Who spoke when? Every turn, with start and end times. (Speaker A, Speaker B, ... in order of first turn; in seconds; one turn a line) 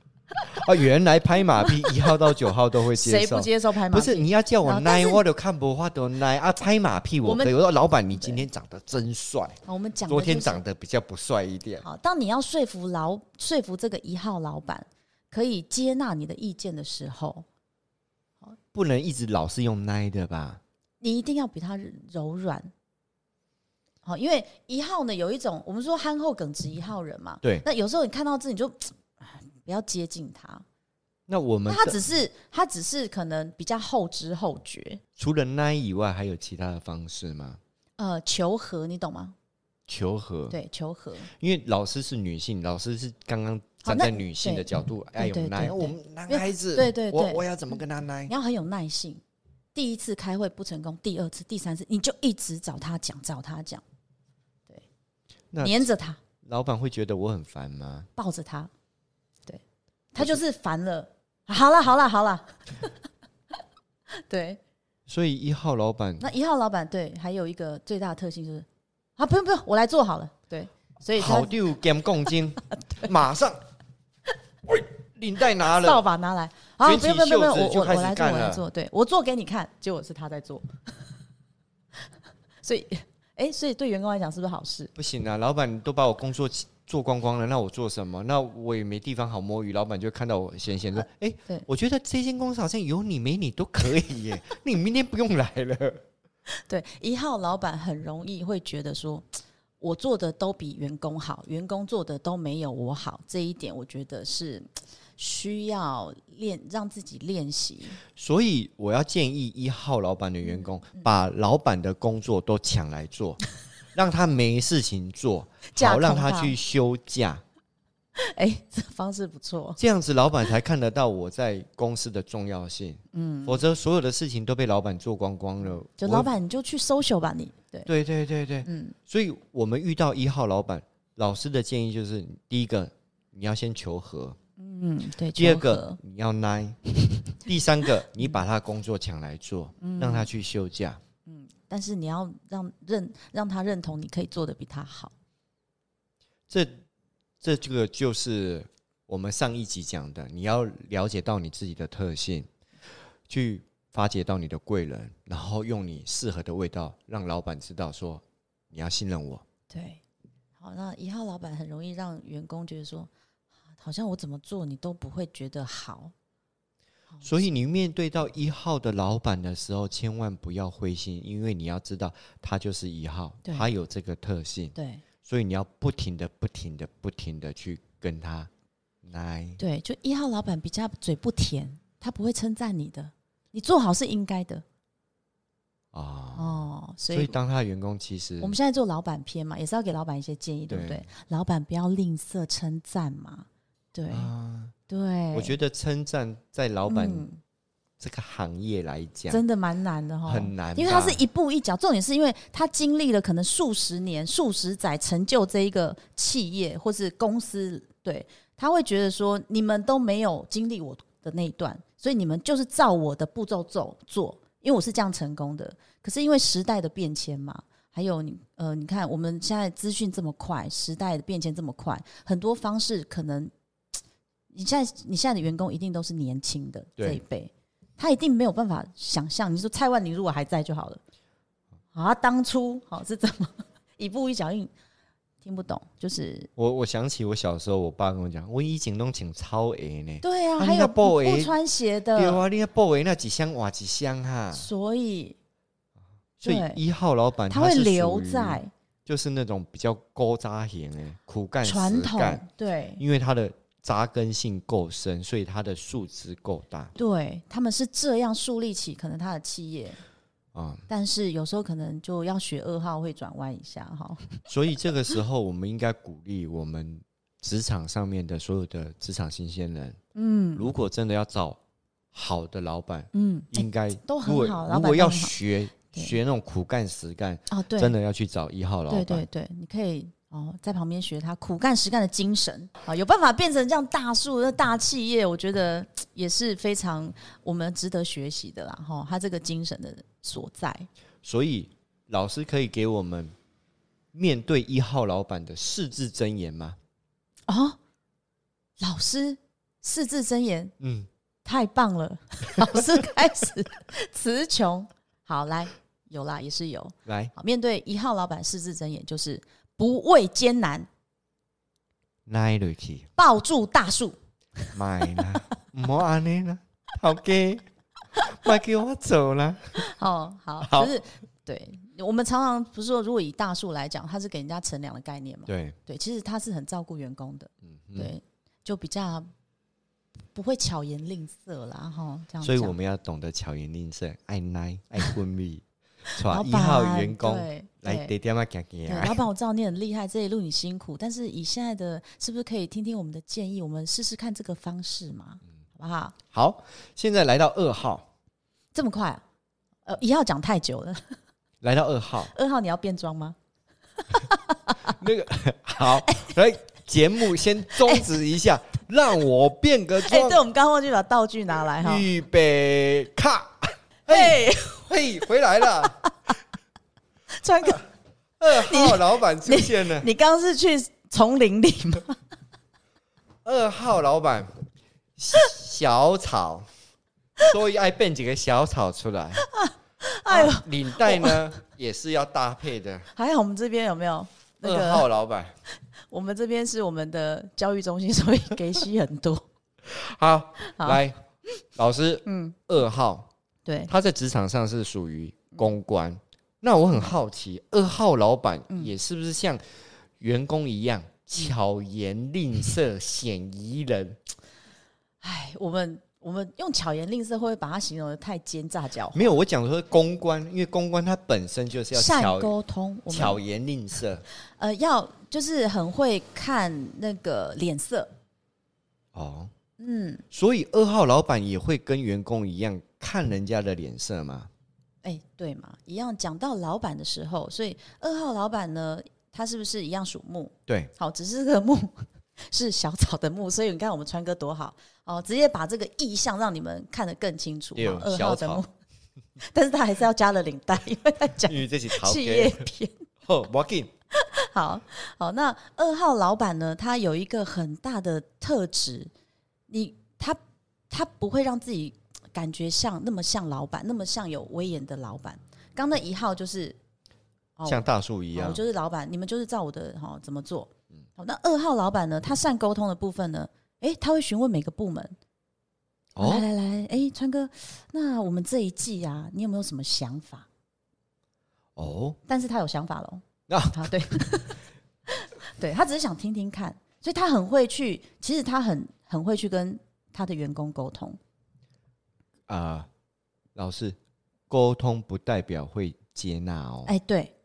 Speaker A: 0.4-11.9
Speaker B: 1.6-2.1
Speaker B: 2.9-5.2
Speaker B: 7.2-7.5
Speaker B: 8.2-8.4
Speaker B: 9.7-10.6
Speaker B: 11.8-17.5
Speaker A: 18.7-20.6
Speaker B: 21.0-22.7
Speaker B: 24.1-30.6
Speaker A: 31.3-32.0
Speaker B: 31.7-35.0
Speaker A: 35.2-37.6
Speaker B: 38.0-39.4
Speaker A: 39.9-40.6
Speaker B: 40.5-41.3
Speaker A: 41.3-48.3
Speaker B: 43.8-47.5
Speaker B: 48.3-49.2
Speaker B: 49.8-53.8
Speaker A: 55.5-55.9
Speaker B: 55.6-56.2
Speaker A: 56.4-58.1
Speaker B: 58.2-58.7
Speaker B: 60.1-62.9
Speaker B: 64.1-64.6
Speaker A: 65.1-66.2
Speaker B: 66.2-68.7
Speaker B: 69.2-71.5
Speaker A: 71.2-73.6
Speaker B: 72.8-73.1
Speaker A: 74.7-76.0
Speaker B: 75.6-80.7
Speaker A: 76.8-78.7
Speaker B: 82.6-84.9
Speaker A: 85.0-96.0
Speaker B: 96.7-99.3
Speaker B: 99.8-104.7
Speaker B: 105.2-108.0
Speaker A: 108.2-113.4
Speaker A: 113.9-117.4
Speaker B: 115.7-116.6
Speaker B: 118.2-119.8
Speaker A: 119.8-126.3
Speaker B: 123.1-123.6
Speaker B: 126.0-127.9
Speaker A: 127.9-134.4
Speaker B: 128.7-128.9
Speaker B: 134.6-136.0
Speaker A: 135.3-141.0
Speaker B: 139.8-140.3
Speaker B: 141.3-145.1
Speaker A: 146.5-146.8
Speaker A: 147.4-152.5
Speaker A: 153.3-159.4
Speaker B: 159.7-160.0
Speaker B: 160.6-163.1
Speaker B: 163.8-166.1
Speaker A: 167.2-178.5
Speaker B: 174.8-175.0
Speaker A: 179.0-179.6
Speaker B: 179.6-184.6
Speaker A: 185.9-188.6
Speaker B: 186.3-187.3
Speaker B: 188.4-194.3
Speaker A: 190.7-191.1
Speaker A: 194.1-194.8
Speaker B: 194.9-195.6
Speaker A: 195.3-197.3
Speaker B: 196.9-197.4
Speaker A: 198.0-199.4
Speaker B: 199.3-223.5
Speaker A: 200.3-201.2
Speaker B: 224.5-231.0
Speaker B: 231.9-234.7
Speaker B: 235.4-236.5
Speaker A: 236.6-241.6
Speaker B: 240.2-242.4
Speaker A: 242.2-244.7
Speaker B: 244.5-245.4
Speaker A: 246.4-252.4
Speaker B: 246.4-246.8
Speaker B: 247.5-248.7
Speaker B: 251.6-253.0
Speaker A: 253.0-256.9
Speaker B: 257.0-260.0
Speaker A: 260.5-260.9
Speaker B: 260.9-264.4
Speaker A: 264.5-270.0
Speaker B: 270.1-270.7
Speaker A: 270.6-271.6
Speaker A: 272.1-279.2
Speaker B: 273.1-275.4
Speaker B: 277.5-277.9
Speaker B: 278.9-290.9
Speaker A: 291.2-293.3
Speaker A: 294.1-296.8
Speaker B: 297.5-297.8
Speaker B: 298.8-300.7
Speaker A: 300.8-301.1
Speaker B: 301.4-310.9
Speaker A: 307.1-307.3
Speaker A: 312.3-313.1
Speaker B: 313.2-315.3
Speaker A: 314.7-317.6
Speaker A: 318.2-319.8
Speaker B: 319.8-329.3
Speaker A: 320.6-320.9
Speaker A: 325.5-325.8
Speaker A: 327.6-328.1
Speaker B: 330.3-332.8
Speaker A: 332.4-339.2
Speaker B: 336.2-338.1
Speaker B: 338.9-346.2
Speaker A: 346.3-348.1
Speaker B: 348.8-349.2
Speaker B: 349.9-351.2
Speaker A: 351.6-352.3
Speaker B: 352.3-353.4
Speaker B: 354.1-354.9
Speaker A: 354.8-360.4
Speaker B: 356.0-356.3
Speaker B: 357.8-358.1
Speaker B: 360.0-362.1
Speaker A: 361.8-366.0
Speaker B: 364.1-364.9
Speaker B: 365.8-366.3
Speaker B: 367.3-367.9
Speaker A: 368.4-370.1
Speaker B: 368.5-372.2
Speaker A: 373.4-374.5
Speaker A: 375.2-376.7
Speaker A: 377.4-379.4
Speaker B: 379.4-381.4
Speaker A: 380.3-383.1
Speaker B: 383.1-385.1
Speaker A: 384.6-385.6
Speaker B: 386.1-389.4
Speaker A: 389.9-391.2
Speaker B: 390.6-391.0
Speaker A: 391.8-393.3
Speaker B: 392.3-392.6
Speaker B: 393.7-393.9
Speaker A: 393.9-404.2
Speaker B: 405.2-409.3
Speaker A: 409.1-412.5
Speaker B: 411.9-413.4
Speaker A: 413.1-414.2
Speaker B: 414.6-418.1
Speaker A: 419.1-419.5
Speaker B: 419.8-420.2
Speaker A: 420.3-424.5
Speaker B: 425.0-438.7
Speaker A: 430.7-430.9
Speaker A: 437.8-438.6
Speaker B: 439.4-443.1
Speaker A: 441.5-442.7
Speaker A: 443.2-443.9
Speaker B: 444.1-449.1
Speaker B: 449.7-450.4
Speaker B: 450.9-456.8
Speaker B: 457.6-465.1
Speaker A: 457.7-458.6
Speaker A: 466.1-466.5
Speaker B: 466.2-470.5
Speaker A: 471.8-472.2
Speaker B: 472.3-481.2
Speaker A: 473.5-474.1
Speaker A: 482.5-482.9
Speaker A: 483.6-484.0
Speaker A: 484.5-486.9
Speaker B: 486.9-487.3